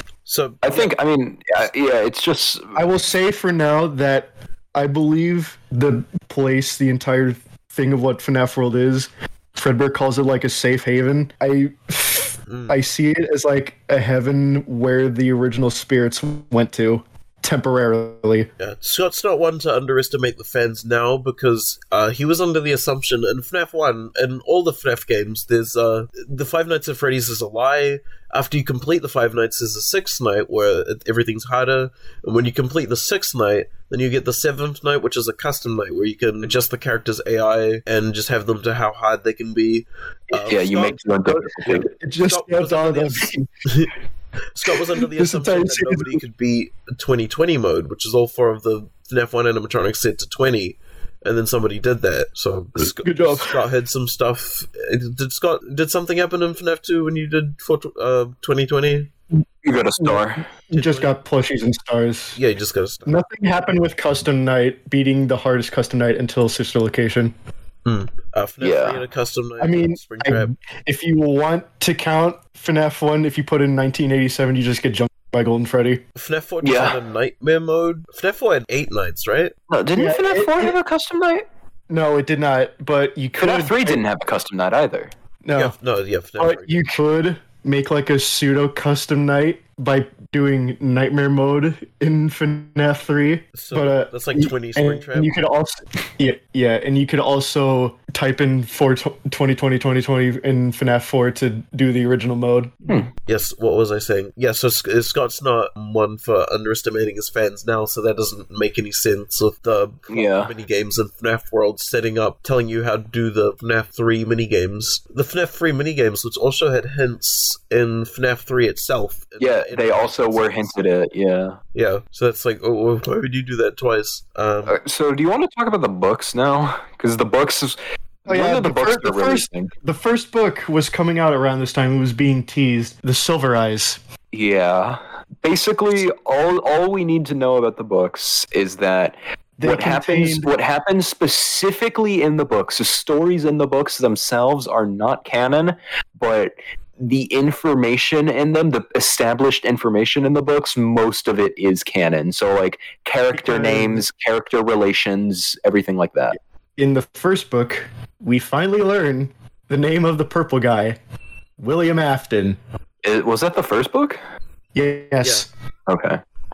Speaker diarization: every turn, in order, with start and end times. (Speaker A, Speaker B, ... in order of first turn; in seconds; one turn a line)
Speaker A: 0.3-1.0
Speaker B: 0.6-2.8
Speaker C: 2.8-18.5
Speaker A: 12.5-12.8
Speaker A: 18.6-41.1
Speaker B: 40.5-41.9
Speaker C: 41.3-43.5
Speaker A: 41.6-43.9
Speaker A: 44.5-59.1
Speaker C: 44.6-46.2
Speaker C: 52.8-53.6
Speaker B: 59.6-60.5
Speaker C: 60.0-62.4
Speaker A: 60.7-61.1
Speaker A: 62.4-63.2
Speaker C: 63.1-67.3
Speaker A: 67.8-70.5
Speaker B: 68.6-69.0
Speaker C: 69.6-76.0
Speaker A: 76.2-79.5
Speaker B: 76.6-77.0
Speaker B: 79.7-81.5
Speaker C: 80.0-80.8
Speaker C: 81.9-84.0
Speaker B: 83.4-85.1
Speaker C: 85.4-85.8
Speaker A: 85.5-86.8
Speaker C: 86.4-102.9
Speaker A: 93.6-95.3
Speaker A: 103.3-120.9
Speaker B: 110.1-110.5
Speaker B: 119.4-121.6
Speaker A: 121.7-124.8
Speaker B: 124.7-129.7
Speaker C: 128.3-134.0
Speaker B: 134.3-156.4
Speaker C: 139.6-140.5
Speaker C: 153.3-154.1
Speaker C: 156.8-161.0
Speaker C: 161.6-162.6
Speaker B: 163.0-164.2
Speaker C: 164.8-165.5
Speaker B: 165.9-166.2